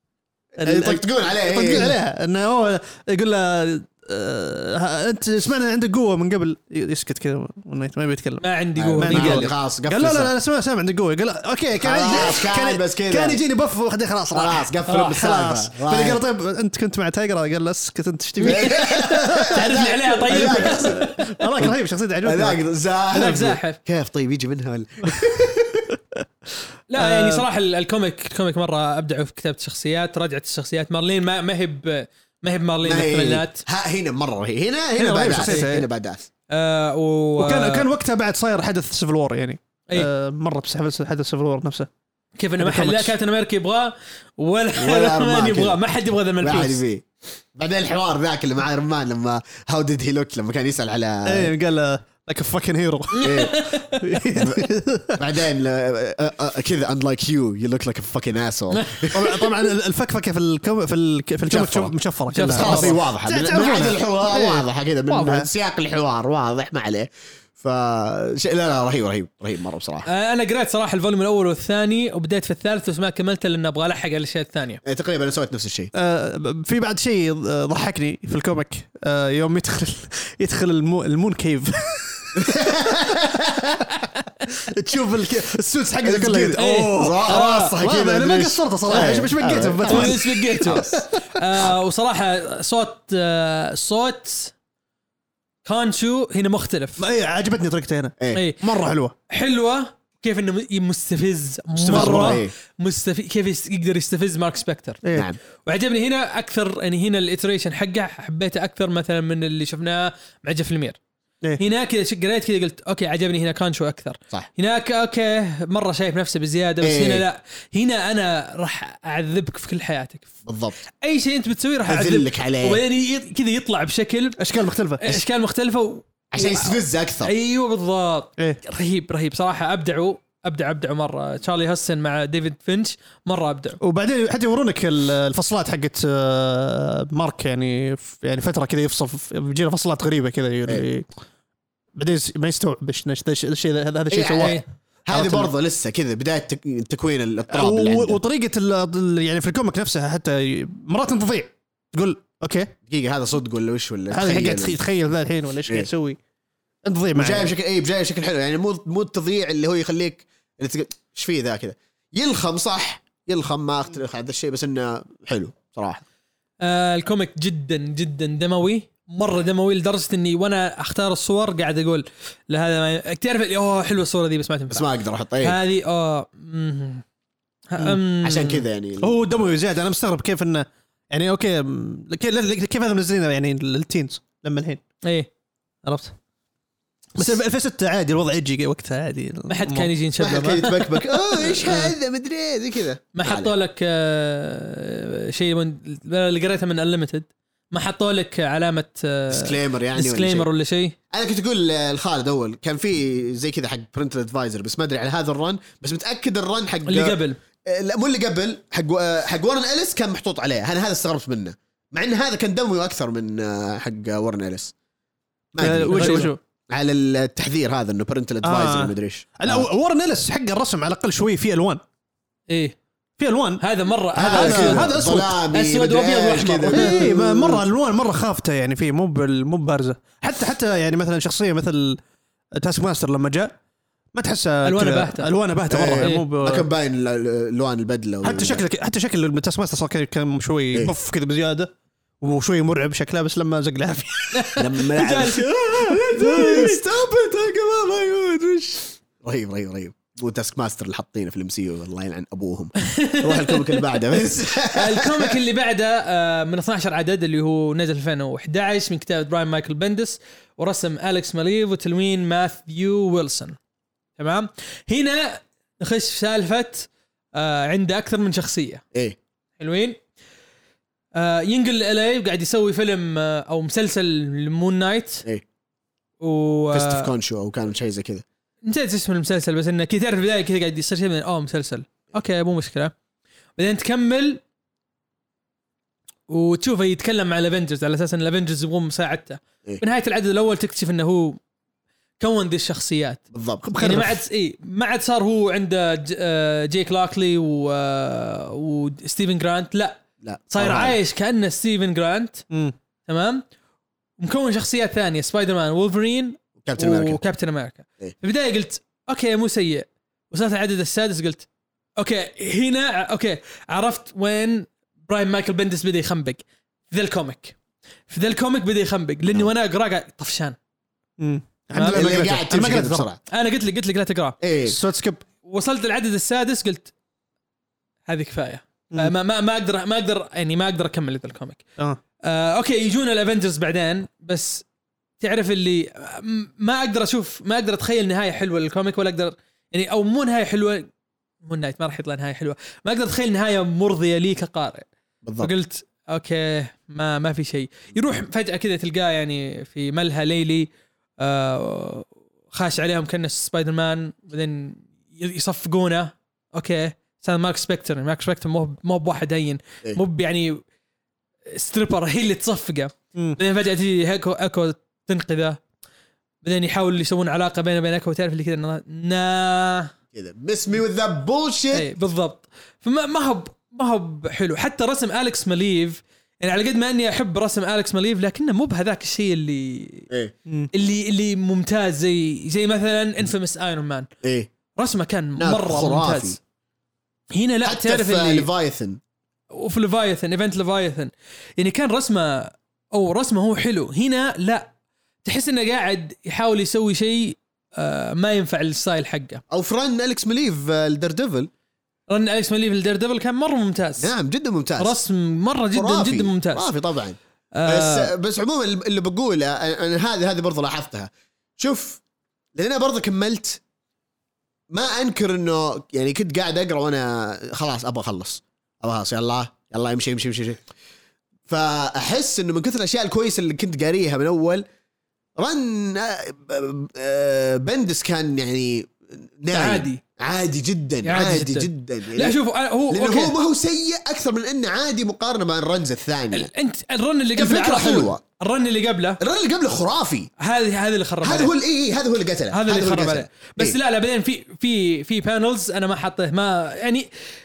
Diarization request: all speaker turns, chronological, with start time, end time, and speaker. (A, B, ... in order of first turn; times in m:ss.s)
0:00.6-0:02.0 A
0:00.6-0:08.4 B
0:08.4-0:09.5 C
0:08.8-0:10.3 A
0:09.0-0:22.6 B
0:11.8-0:13.4 A
0:14.3-0:16.2 A
0:18.4-0:18.8 C
0:18.4-0:21.7 A
0:19.4-0:21.2 C
0:22.2-0:25.9 A
0:23.1-0:23.8 C
0:26.9-0:33.6 C
0:27.0-0:27.4 B
0:32.8-0:36.3 A
0:35.0-0:35.9 B
0:35.4-0:35.7 C
0:36.5-0:37.9 C
0:37.4-0:41.9 B
0:42.4-0:46.8 C
0:42.6-0:43.2 B
0:44.8-0:45.8 A
0:46.4-0:51.5 A
0:51.2-0:55.4 B
0:53.2-0:54.0 C
0:53.2-0:53.5 A
0:54.4-0:59.2 A
0:58.7-0:59.2 C
0:59.1-1:05.5 B
1:01.5-1:01.9 A
1:02.3-1:03.0 C
1:02.5-1:10.0 A
1:10.1-1:14.8 C
1:14.8-1:15.9 A
1:15.9-1:23.0 B
1:22.4-1:23.8 A
1:24.7-1:31.4 B
1:24.9-1:25.5 A
1:26.0-1:30.9 A
1:26.6-1:27.7 C
1:29.8-1:34.5 C
1:35.6-1:37.0 C
1:37.0-1:39.1 B
1:38.3-1:38.6 C
1:39.3-1:45.0 C
1:41.8-1:42.4 B
1:41.8-1:42.5 A
1:45.6-1:51.0 C
1:51.6-2:00.4 C
1:56.8-1:57.2 A
2:00.4-2:00.8 A
2:01.0-2:04.4 C
2:01.9-2:02.8 A
2:04.4-2:05.2 B
2:05.0-2:13.8 C
2:06.3-2:07.3 A
2:13.8-2:21.1 B
2:22.0-2:25.5 B
2:24.1-2:28.2 A
2:27.5-2:32.7 B
2:32.9-2:34.8 A
2:34.1-2:36.2 B
2:36.8-2:37.5 B
2:37.1-2:46.0 A
2:46.6-2:54.9 C
2:54.7-2:55.6 A
2:55.4-2:57.0 C
2:57.7-2:58.6 C
2:58.2-2:59.2 A
2:59.0-3:04.8 B
3:05.0-3:05.3 C
3:05.8-3:06.1 B
3:07.2-3:09.9 B
3:09.5-3:11.9 C
3:10.2-3:13.5 A
3:13.2-3:20.9 C
3:19.3-3:20.5 A
3:21.1-3:34.7 A
3:26.8-3:27.4 C
3:35.5-3:39.7 A
3:35.6-3:36.4 B
3:35.9-3:36.3 C
3:38.4-3:41.8 B
3:42.5-3:42.8 C
3:43.2-3:43.6 B
3:43.6-3:44.9 C
3:44.2-3:47.6 A
3:44.3-3:45.4 B
3:45.5-3:47.0 C
3:46.7-3:52.0 B
3:52.5-3:53.6 B
3:54.1-3:56.7 B
3:54.6-3:55.3 C
3:55.7-3:58.6 A
3:56.0-3:56.2 C
3:58.2-4:04.6 B
4:04.3-4:06.8 C
4:04.6-4:15.4 A
4:06.1-4:06.8 B
4:13.0-4:13.8 C
4:14.7-4:23.6 C
4:24.2-4:28.8 C
4:29.6-4:30.0 C
4:31.1-4:35.2 C
4:36.2-4:37.1 C
4:36.7-4:38.2 A
4:38.6-4:42.9 C
4:43.6-4:44.4 C
4:46.3-4:51.4 C
4:52.2-4:53.2 C
4:53.3-4:53.6 A
4:53.6-4:54.2 B
4:53.8-5:00.0 C
5:00.2-5:01.0 A
5:00.5-5:02.4 C
5:03.1-5:03.4 C
5:04.2-5:11.4 C
5:06.6-5:07.2 A
5:12.0-5:17.6 C
5:18.1-5:20.6 C
5:21.2-5:23.1 B
5:21.7-5:22.0 C
5:21.8-5:23.2 A
5:23.3-5:24.4 C
5:24.4-5:24.8 A
5:24.6-5:25.2 B
5:25.4-5:26.9 C
5:28.1-5:31.6 C
5:32.2-5:34.6 C
5:35.2-5:40.9 C
5:41.4-5:44.8 C
5:45.2-5:45.5 A
5:45.4-5:50.7 C
5:51.2-6:00.6 C
6:01.5-6:05.6 C
6:06.4-6:09.9 C
6:10.1-6:11.9 A
6:11.7-6:20.1 C
6:20.7-6:24.1 C
6:24.2-6:24.5 A
6:24.8-6:26.4 C
6:25.4-6:26.4 A
6:27.3-6:28.5 C
6:27.6-6:29.0 A
6:29.5-6:34.7 C
6:35.2-6:39.4 C
6:39.5-6:41.5 A
6:42.1-6:44.1 C
6:44.0-6:45.0 A
6:44.8-6:46.6 C
6:45.7-6:52.0 A
6:47.5-6:48.1 C
6:52.6-6:53.6 A
6:54.7-7:00.6 A
7:01.5-7:04.6 A
7:05.4-7:12.4 A
7:09.5-7:10.0 C
7:11.0-7:13.3 C
7:12.9-7:16.5 A
7:16.3-7:19.2 C
7:17.4-7:18.2 A
7:19.2-7:20.3 A
7:20.4-7:21.5 C
7:21.2-7:23.8 A
7:22.5-7:27.1 C